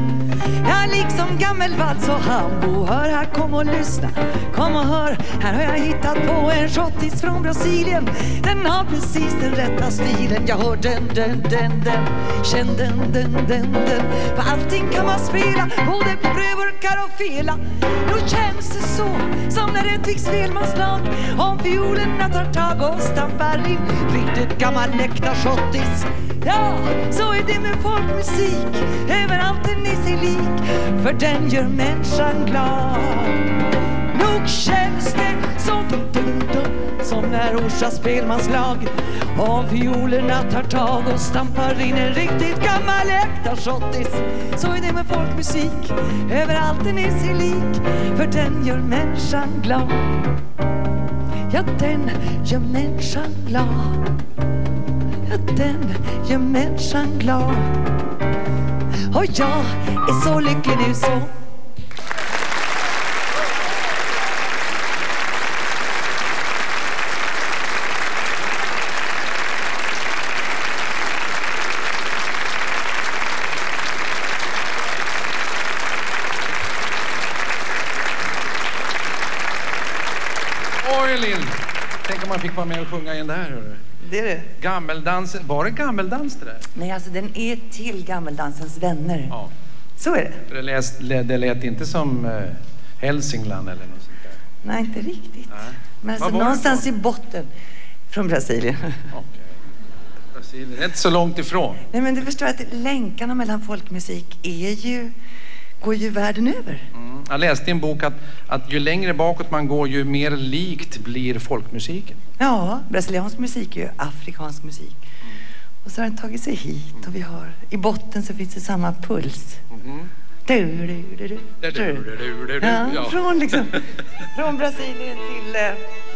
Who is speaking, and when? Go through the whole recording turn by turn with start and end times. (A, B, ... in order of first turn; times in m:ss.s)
0:00.6-0:33.4 A
0:34.1-0:50.1 A
0:51.5-0:54.0 A
0:55.3-0:57.7 A
0:59.1-1:01.4 A
1:20.8-1:23.8 B
1:24.0-1:24.5 A
1:24.6-1:26.6 B
1:26.8-1:29.4 A
1:30.0-1:30.4 A
1:30.5-1:34.4 B
1:34.6-1:37.5 A
1:35.5-1:36.8 B
1:38.1-1:39.1 A
1:39.1-1:39.4 B
1:40.3-1:41.8 B
1:41.9-1:45.1 A
1:45.8-1:46.9 A
1:46.9-1:52.2 B
1:52.4-1:55.0 A
1:55.8-1:59.6 A
1:59.7-2:00.1 B
2:00.5-2:02.1 A
2:01.6-2:03.8 B
2:02.6-2:05.8 A